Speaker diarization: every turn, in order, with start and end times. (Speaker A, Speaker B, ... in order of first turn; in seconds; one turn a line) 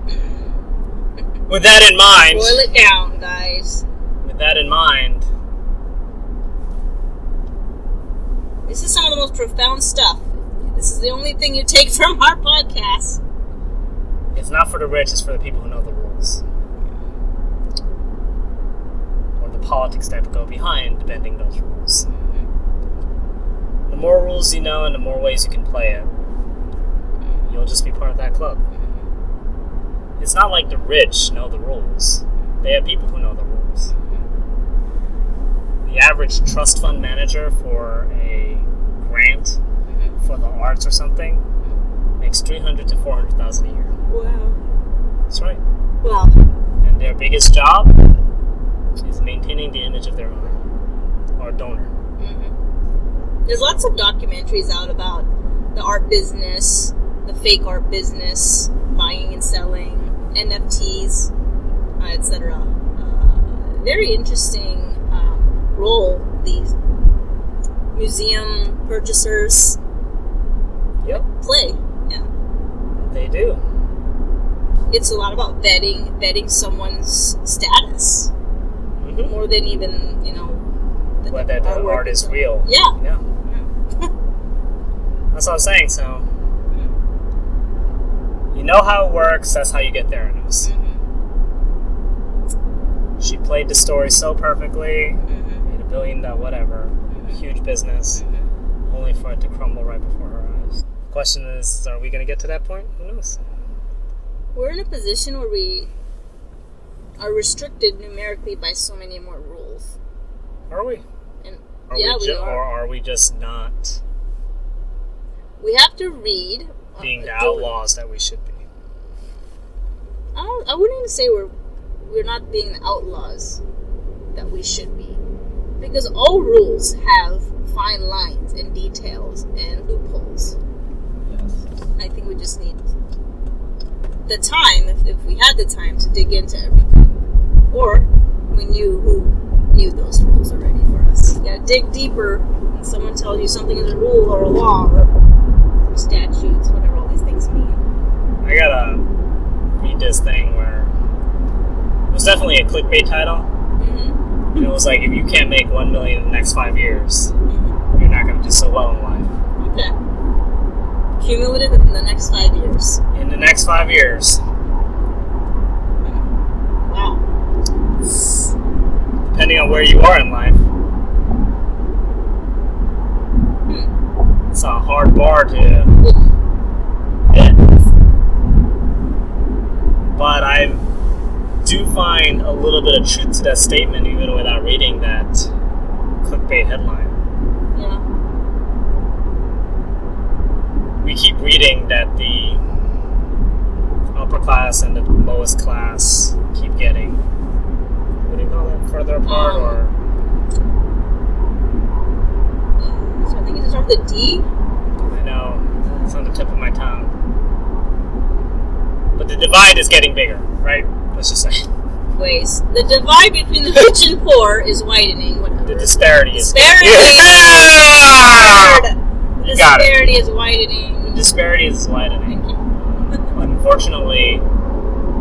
Speaker A: 0.1-0.3
Speaker B: 1.5-2.6
Speaker A: 2.1-3.8
Speaker B: 4.2-5.3
Speaker A: 8.7-13.2
Speaker B: 14.3-16.4
Speaker B: 19.4-22.1
Speaker A: 22.1-22.5
Speaker B: 23.9-26.1
Speaker B: 27.5-28.6
Speaker A: 28.7-29.1
Speaker B: 30.2-33.9
Speaker A: 33.9-34.3
Speaker B: 35.8-39.6
Speaker A: 39.9-40.2
Speaker B: 40.2-41.4
Speaker B: 42.2-43.9
Speaker A: 44.1-44.6
Speaker B: 45.3-45.6
Speaker A: 46.0-46.4
Speaker B: 46.8-48.0
Speaker B: 49.0-50.6
Speaker B: 51.4-51.9
Speaker A: 52.2-52.5
Speaker A: 53.5-61.3
Speaker B: 53.5-53.9
Speaker A: 62.0-66.8
Speaker A: 68.0-69.8
Speaker A: 71.1-72.3
Speaker B: 73.0-73.6
Speaker A: 74.9-78.3
Speaker B: 79.0-79.4
Speaker A: 79.2-80.7
Speaker A: 81.2-84.1
Speaker B: 81.3-83.2
Speaker B: 85.3-86.3
Speaker A: 86.7-87.0
Speaker B: 88.5-90.7
Speaker A: 90.6-91.0
Speaker B: 93.2-98.2
Speaker A: 95.2-95.7
Speaker A: 97.1-97.4
Speaker A: 98.1-98.5
Speaker B: 98.8-103.4
Speaker A: 104.5-105.9
Speaker A: 107.2-109.9
Speaker B: 110.7-111.0
Speaker A: 111.4-112.7
Speaker B: 111.9-114.0
Speaker A: 115.6-117.8
Speaker B: 117.0-118.6
Speaker A: 120.3-121.5
Speaker A: 122.0-123.6
Speaker A: 124.3-125.2
Speaker A: 125.8-130.6
Speaker B: 131.2-131.6
Speaker A: 132.0-132.8
Speaker A: 134.3-137.2
Speaker A: 137.7-145.1
Speaker A: 145.9-147.8
Speaker B: 148.4-149.1
Speaker B: 149.7-150.9
Speaker B: 152.1-153.5
Speaker A: 153.8-154.7
Speaker B: 154.6-157.3
Speaker A: 157.5-157.8
Speaker B: 157.9-159.3
Speaker A: 159.6-159.9
Speaker A: 161.2-163.0
Speaker B: 163.1-164.4
Speaker A: 166.0-166.3
Speaker A: 166.8-167.2
Speaker A: 168.2-168.4
Speaker B: 169.3-170.7
Speaker A: 173.7-173.9
Speaker B: 174.5-175.9
Speaker B: 177.3-177.8
Speaker B: 180.2-180.9
Speaker B: 181.6-185.5
Speaker B: 186.2-187.2
Speaker A: 187.7-188.0
Speaker B: 191.0-192.6
Speaker B: 194.1-197.2
Speaker B: 198.2-199.9
Speaker A: 199.2-199.8
Speaker A: 202.8-204.5
Speaker B: 205.0-207.1
Speaker B: 209.2-211.7
Speaker A: 212.2-221.3
Speaker B: 215.6-218.9
Speaker B: 219.5-220.0
Speaker B: 221.0-224.4
Speaker A: 222.3-222.6